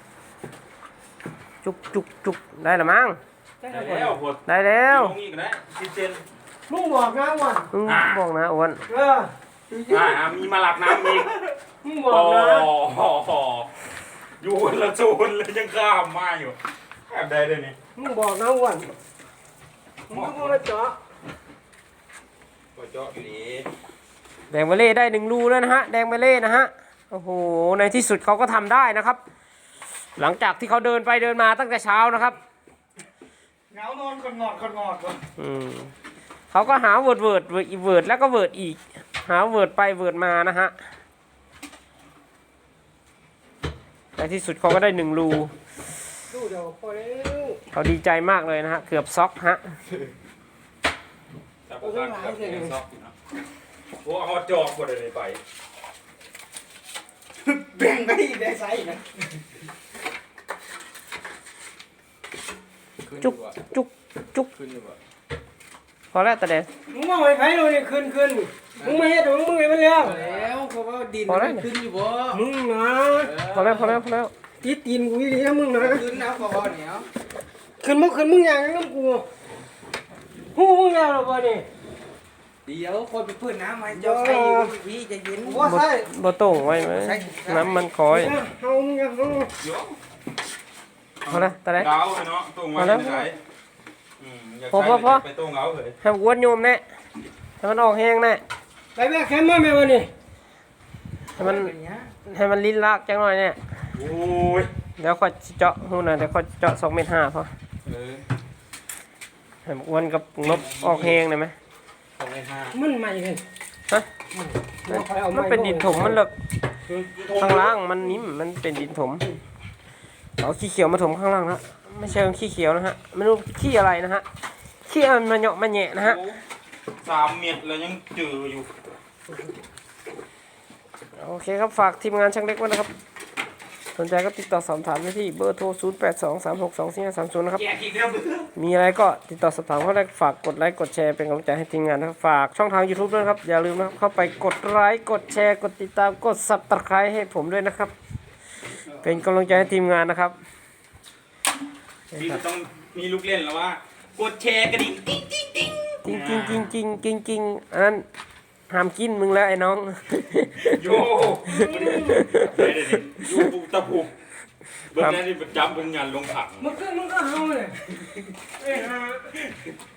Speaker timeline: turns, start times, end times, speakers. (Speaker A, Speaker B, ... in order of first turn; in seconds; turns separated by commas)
Speaker A: 1.6-3.2, Speaker B: 3.6-4.2, Speaker C: 3.7-6.2, Speaker A: 4.5-5.2, Speaker B: 6.7-7.7, Speaker A: 7.7-8.8, Speaker C: 7.8-8.2, Speaker B: 8.9-9.3, Speaker D: 9.7-10.3, Speaker C: 9.9-11.5, Speaker B: 11.8-12.7, Speaker C: 12.0-17.8, Speaker B: 18.0-18.9, Speaker C: 20.1-20.6, Speaker B: 20.1-21.0, Speaker C: 22.8-23.7, Speaker A: 24.5-29.2, Speaker A: 30.2-32.4, Speaker D: 33.7-35.2, Speaker A: 35.4-35.9, Speaker A: 36.5-40.8, Speaker A: 44.2-45.5, Speaker B: 46.3-47.6, Speaker A: 47.7-49.6, Speaker C: 51.7-53.1, Speaker B: 51.8-52.7, Speaker C: 54.0-55.4, Speaker D: 57.4-59.2, Speaker D: 63.0-63.6, Speaker A: 63.2-64.5, Speaker D: 64.5-65.0, Speaker A: 66.1-66.7, Speaker B: 66.9-70.3, Speaker D: 70.0-72.4, Speaker A: 71.3-71.7, Speaker B: 72.3-73.9, Speaker D: 73.2-74.0, Speaker A: 73.4-74.3, Speaker B: 74.6-76.1, Speaker D: 75.8-77.1, Speaker B: 77.8-79.3, Speaker B: 80.5-81.7, Speaker D: 82.7-87.9, Speaker B: 83.9-84.8, Speaker B: 85.4-85.8, Speaker A: 85.6-88.4, Speaker B: 88.1-89.5, Speaker C: 89.6-90.0, Speaker C: 91.2-93.4, Speaker A: 91.3-91.9, Speaker A: 92.8-93.3, Speaker C: 94.2-96.0, Speaker A: 94.7-95.2, Speaker A: 96.0-96.8, Speaker A: 97.6-98.4, Speaker B: 99.0-100.1, Speaker D: 101.3-102.1, Speaker A: 101.4-101.7, Speaker A: 102.2-103.6, Speaker C: 103.9-104.7, Speaker A: 105.0-107.5, Speaker C: 107.8-108.2, Speaker A: 109.7-111.5, Speaker C: 110.4-111.2, Speaker C: 112.2-112.8, Speaker B: 112.7-113.4, Speaker B: 114.4-116.2, Speaker A: 114.9-116.3, Speaker C: 117.1-117.8, Speaker A: 117.4-119.3, Speaker A: 120.4-124.2, Speaker A: 124.8-126.2, Speaker C: 126.0-126.4, Speaker C: 127.0-128.9, Speaker A: 131.2-132.9, Speaker A: 134.0-137.7, Speaker C: 137.6-138.5, Speaker A: 138.6-147.9, Speaker C: 148.9-149.2, Speaker A: 149.0-150.4, Speaker C: 152.1-156.7, Speaker A: 156.0-158.1, Speaker A: 158.7-160.8, Speaker C: 160.6-164.1, Speaker B: 161.5-162.3, Speaker A: 162.1-162.5, Speaker C: 164.8-166.7, Speaker B: 166.6-167.9, Speaker C: 168.0-169.7, Speaker B: 168.6-169.0